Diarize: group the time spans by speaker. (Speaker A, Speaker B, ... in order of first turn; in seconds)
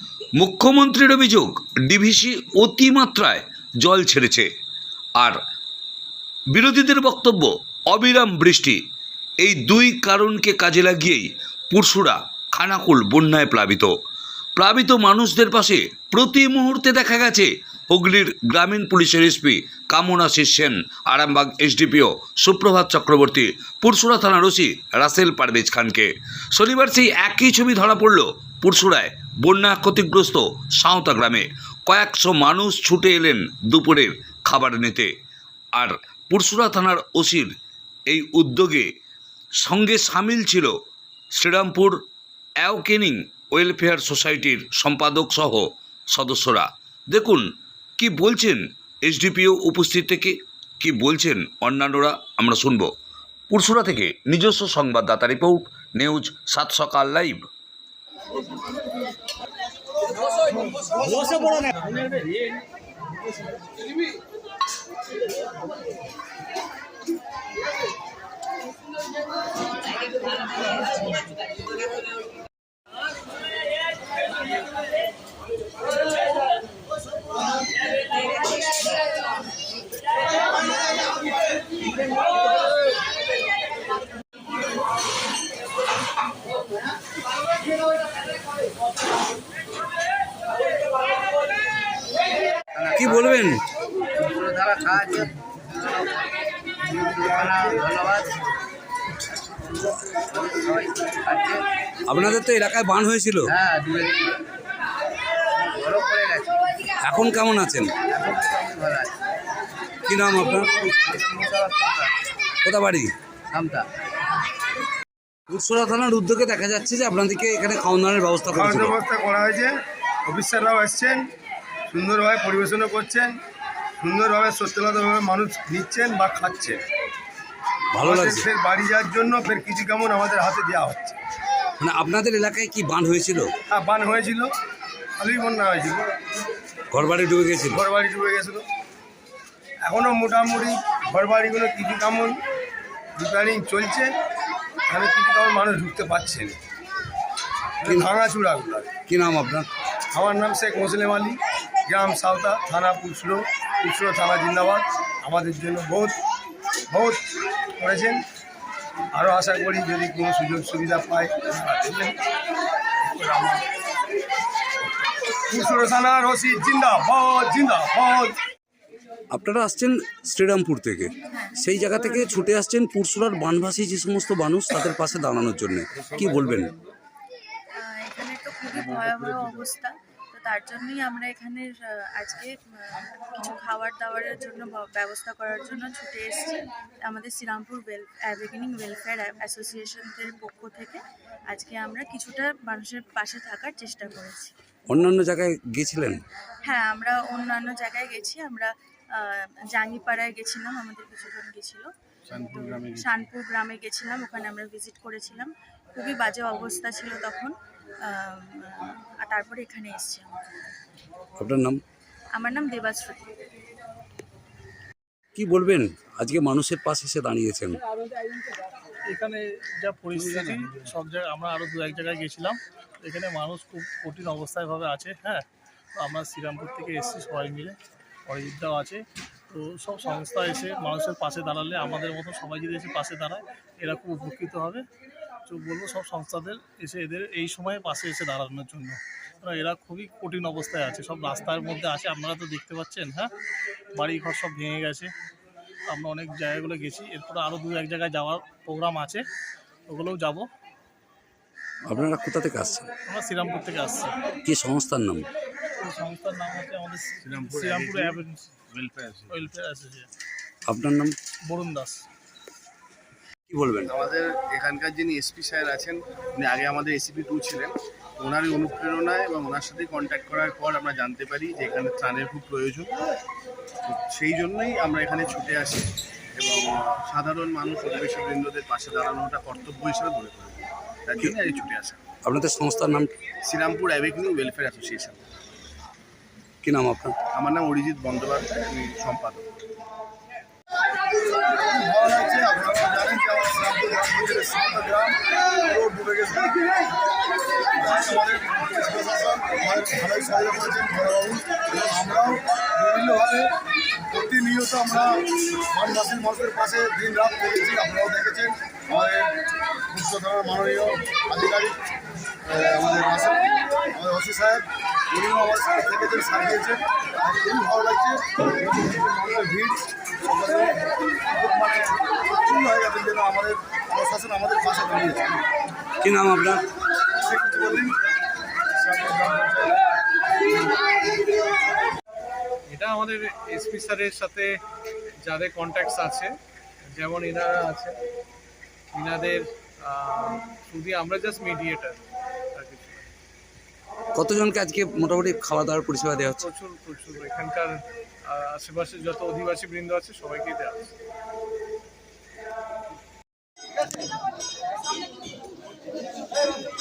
Speaker A: 0.4-4.5, 6.5-8.8, 9.4-13.9, 14.6-35.1, 35.8-37.5, 38.1-38.9, 39.6-40.7, 41.3-42.0, 42.6-47.4, 48.0-52.9, 53.5-57.4, 93.0-93.6, 102.1-103.5, 107.0-107.9, 110.1-110.7, 112.6-113.1, 115.5-119.0, 127.9-128.4, 131.8-133.5, 136.9-137.8, 149.1-149.7, 169.3-176.7, 194.9-196.2, 211.4-211.8, 215.3-217.8, 251.9-252.9, 254.4-255.3, 260.7-261.1, 263.5-263.9, 282.2-283.1, 286.6-287.1, 326.0-326.6, 344.1-346.4
Speaker B: 92.7-93.3, 94.2-96.3, 96.9-98.3, 100.2-101.6, 103.5-104.3, 105.7-106.5, 108.1-109.1, 110.7-112.1, 113.5-113.9
Speaker C: 118.5-119.7, 120.3-121.2, 121.9-123.3, 124.0-126.8, 128.0-131.2, 133.7-134.5, 135.2-136.1, 137.7-138.6, 139.8-142.4, 143.2-144.1, 144.9-146.6, 147.8-148.9, 150.1-156.1, 156.9-157.2, 157.8-158.2, 159.1-162.1, 163.1-163.6, 165.5-168.3, 291.6-295.1, 295.6-296.5, 297.8-303.5, 304.1-305.2, 305.7-309.3, 309.9-311.7, 312.5-320.8, 321.3-325.3, 327.2-327.9, 328.8-329.8
Speaker D: 171.3-171.6, 177.7-194.5, 196.7-207.5, 208.1-210.4, 212.3-213.2
Speaker E: 202.3-203.2, 220.3-220.7, 257.2-258.2, 258.7-259.3, 263.9-272.9, 273.9-282.0, 283.4-285.2, 287.3-289.4
Speaker F: 219.1-225.4, 226.0-227.7, 228.3-234.8, 235.5-243.3, 243.9-245.1, 245.9-249.2, 249.9-250.5, 253.1-254.1, 255.8-258.5, 259.3-260.1, 261.5-262.0
Speaker G: 332.7-334.6, 335.2-336.3, 336.9-338.0, 338.9-342.0, 342.5-343.1, 346.4-350.9